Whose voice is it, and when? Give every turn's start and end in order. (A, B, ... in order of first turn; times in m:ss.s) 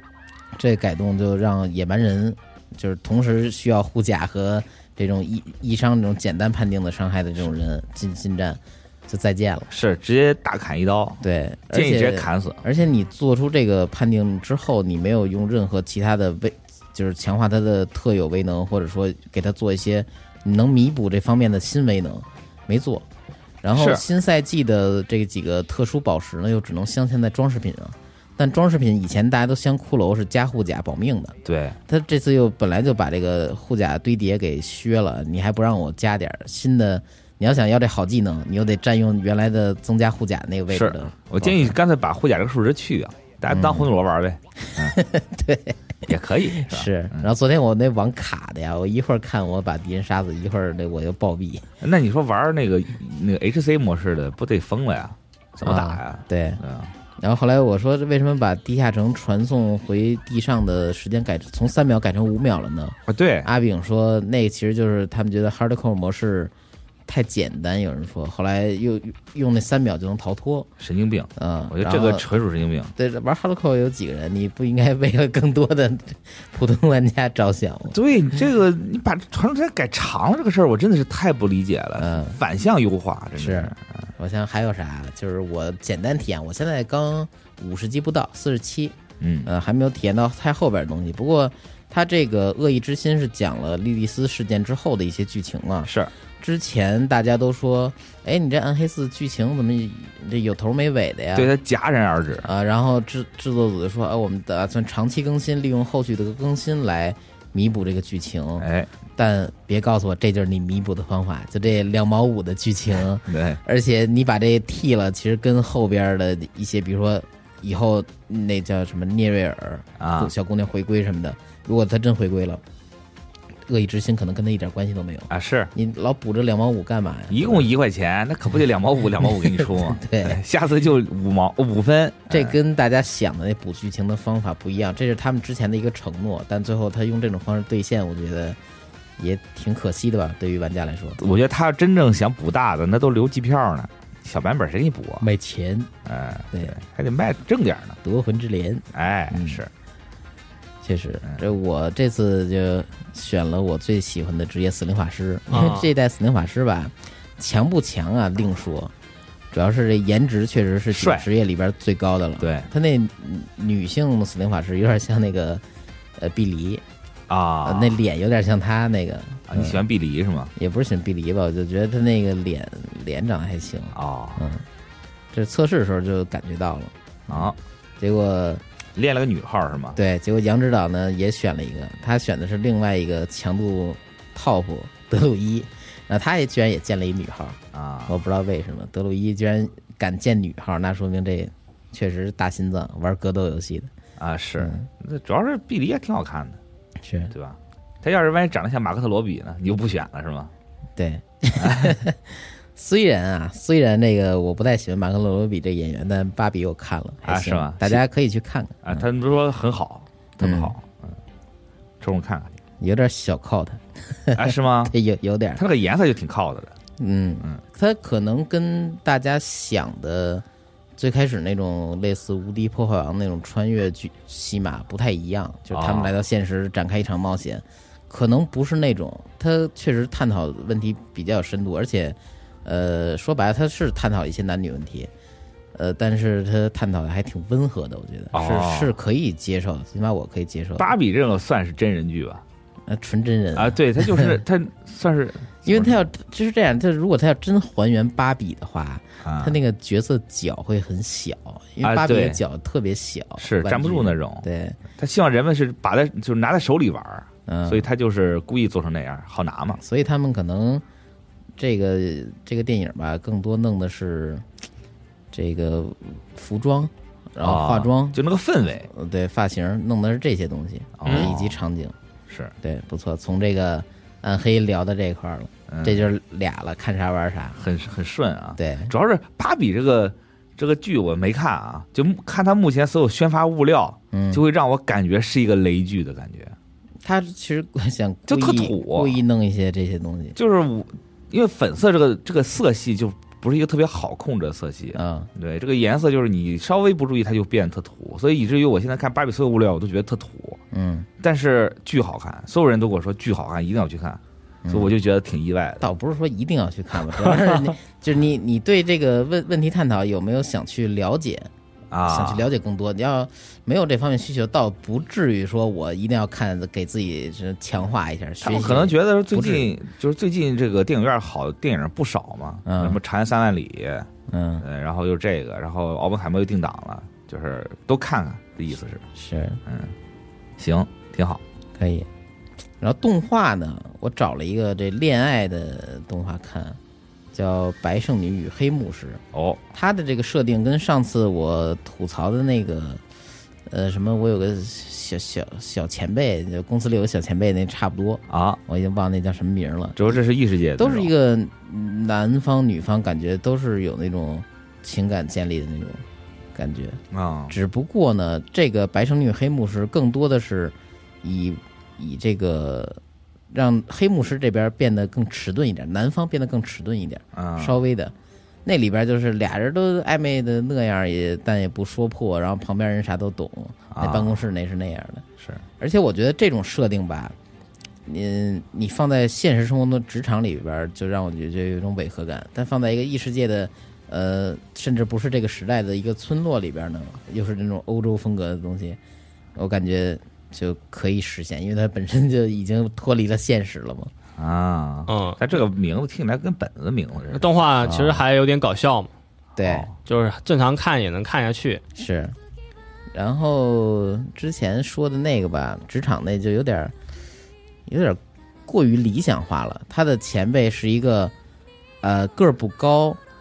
0:00.5-0:09.7 A
0:09.7-0:11.2 B
0:11.2-0:23.0 A
0:11.7-0:12.6 B
0:23.6-0:41.8 A
0:23.7-0:24.0 B
0:31.4-0:31.8 B
0:40.7-0:45.0 B
0:43.5-0:43.9 A
0:44.7-0:51.6 A
0:46.1-0:47.3 B
0:51.8-0:56.9 B
0:55.6-0:56.6 A
0:57.2-1:06.5 A
1:03.1-1:03.5 B
1:07.0-1:10.7 A
1:10.8-1:12.9 B
1:11.4-1:12.2 A
1:13.0-1:18.0 A
1:17.9-1:24.0 B
1:22.0-1:22.4 A
1:23.4-1:41.5 A
1:29.2-1:29.5 B
1:35.8-1:36.1 B
1:41.3-1:42.5 B
1:42.4-2:02.6 A
1:48.6-1:48.9 B
1:53.3-1:53.6 B
2:00.0-2:00.3 B
2:03.7-2:07.7 A
2:05.3-2:05.7 B
2:07.3-2:12.5 B
2:09.2-2:10.4 A
2:12.3-2:18.6 A
2:19.2-2:21.2 A
2:21.2-2:25.2 B
2:25.2-2:25.9 A
2:26.0-2:28.0 B
2:28.0-2:29.6 A
2:28.9-2:29.7 B
2:30.8-2:38.9 A
2:35.5-2:35.9 C
2:39.5-2:45.6 A
2:40.9-2:41.3 B
2:42.4-2:42.7 B
2:46.2-2:46.8 A
2:47.3-2:48.0 B
2:47.6-2:49.8 A
2:49.5-2:50.5 B
2:50.6-2:54.6 A
2:53.9-2:54.5 B
2:55.3-2:58.6 A
2:57.3-2:57.6 B
2:59.0-3:00.0 B
3:00.0-3:13.9 A
3:07.7-3:08.2 B
3:14.2-3:16.6 B
3:14.6-3:14.9 A
3:17.0-3:17.3 A
3:17.3-3:20.5 B
3:21.0-3:29.0 A
3:21.6-3:22.0 B
3:27.2-3:28.0 B
3:28.8-3:31.1 B
3:30.4-3:30.7 A
3:32.0-3:32.6 B
3:32.8-3:35.6 A
3:34.3-3:34.9 B
3:35.6-3:36.7 B
3:37.0-3:40.4 A
3:41.0-3:55.1 A
3:45.7-3:46.1 B
3:55.7-4:00.9 A
3:58.3-3:58.9 B
4:00.8-4:02.4 B
4:02.9-4:04.4 A
4:03.5-4:06.0 B
4:05.6-4:14.8 A
4:09.2-4:09.6 B
4:11.8-4:12.4 B
4:13.4-4:14.5 B
4:15.0-4:19.8 B
4:17.5-4:17.9 A
4:19.7-4:20.8 A
4:21.6-4:24.4 A
4:25.3-4:28.2 A
4:27.4-4:28.9 B
4:28.9-4:32.0 A
4:31.0-4:31.6 B
4:32.6-4:37.6 A
4:35.7-4:36.1 B
4:37.6-4:46.5 B
4:38.6-4:38.9 A
4:44.1-4:44.4 A
4:47.0-4:50.4 A
4:48.3-4:49.2 B
4:50.4-5:00.6 B
4:54.9-4:55.3 A
5:00.7-5:01.1 A
5:01.2-5:05.9 B
5:04.6-5:04.9 A
5:05.8-5:11.5 A
5:11.9-5:12.5 B
5:12.1-5:19.7 A
5:18.4-5:24.1 B
5:22.6-5:23.0 A
5:24.3-5:24.6 A
5:24.6-5:29.0 B
5:29.1-5:29.6 A
5:29.7-5:29.9 B
5:30.6-5:31.4 B
5:31.8-5:32.1 A
5:32.8-5:36.8 A
5:37.3-5:39.2 A
5:39.3-5:39.6 B
5:39.7-5:43.0 A
5:43.7-5:50.2 A
5:48.3-5:48.6 B
5:50.0-5:51.1 B
5:50.8-5:56.0 A
5:56.5-6:03.0 A
5:57.1-5:57.5 B
6:03.5-6:08.1 A
6:07.4-6:07.8 B
6:08.6-6:15.2 A
6:13.9-6:14.4 B
6:15.8-6:17.3 A
6:18.0-6:29.0 A
6:29.6-6:34.1 A
6:34.4-6:37.5 B
6:35.1-6:35.4 C
6:37.3-6:39.1 C
6:37.8-6:38.2 A
6:39.6-6:39.9 A
6:39.6-6:39.9 B
6:40.0-6:41.8 C
6:41.9-6:42.4 A
6:43.1-6:46.9 A
6:47.9-6:51.3 A
6:52.0-6:53.2 A